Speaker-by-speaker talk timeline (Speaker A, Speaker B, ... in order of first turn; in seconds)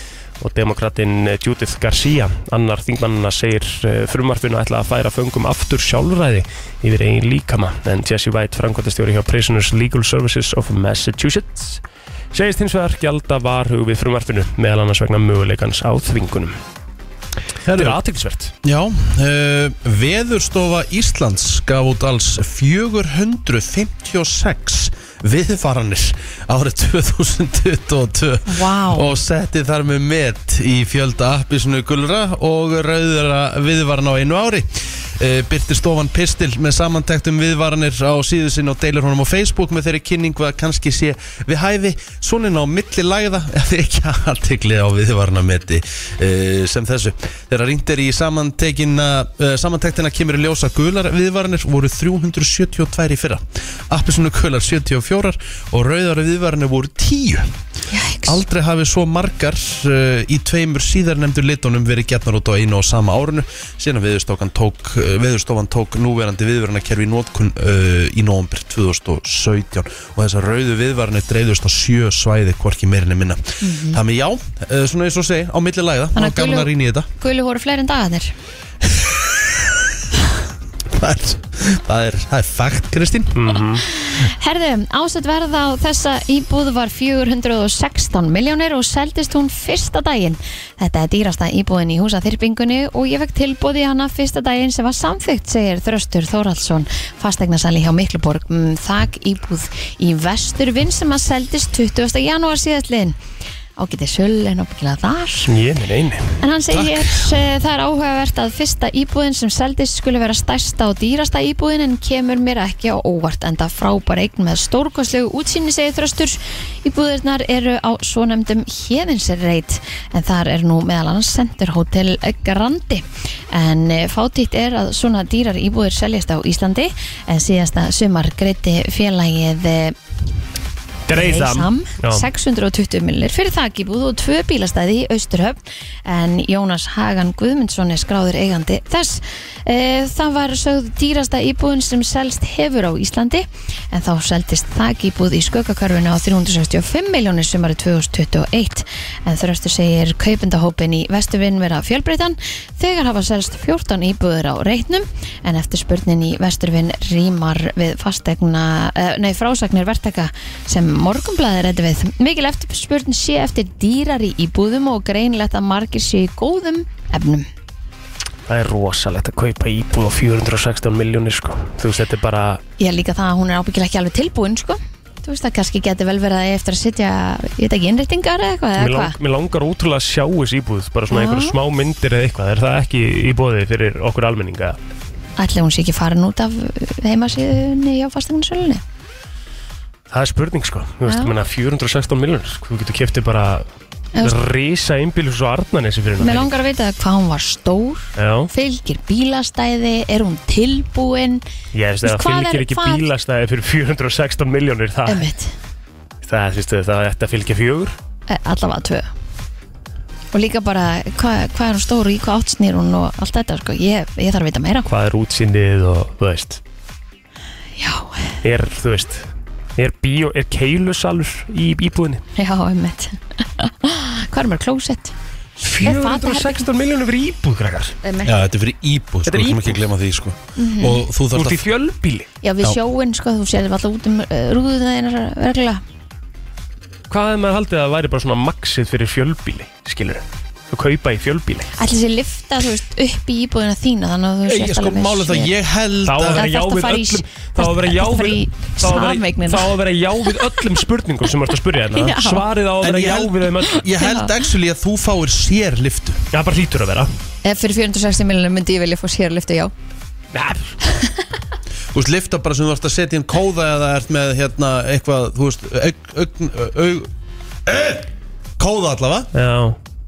Speaker A: 0.4-11.8, 12.3-16.5, 17.7-18.5, 83.3-83.8, 105.5-106.4, 131.1-132.2, 168.5-172.6, 178.8-184.8, 190.1-193.7, 194.2-196.6, 198.2-198.5, 201.7-205.2, 206.2-207.9, 214.9-216.6, 218.4-222.2, 225.6-227.9, 229.2-229.8, 231.3-232.3, 237.1-241.7, 246.0-253.8, 256.3-257.1, 260.3-260.8, 269.3-269.8
Speaker B: 17.6-18.0, 18.6-57.5, 58.2-77.1, 78.8-79.9, 80.8-83.4, 106.7-107.3, 228.2-231.6, 244.4-246.4, 252.8-256.2, 261.9-267.1, 267.7-268.0, 268.6-269.3
Speaker C: 28.5-29.1, 57.9-58.4, 73.6-74.0, 76.2-78.3, 83.9-103.2, 103.8-105.5, 106.4-129.9, 131.1-167.5, 172.8-179.1, 181.1-181.5, 185.4-188.8, 191.1-191.3, 196.2-201.4, 202.0-203.0, 205.1-205.5, 208.3-209.1, 210.3-214.9, 217.8-218.3, 222.3-225.1, 225.8-226.6, 228.0-228.3, 230.6-231.0, 232.4-235.8, 241.8-245.5, 246.3-249.7, 251.9-252.4, 254.0-254.3, 257.4-259.7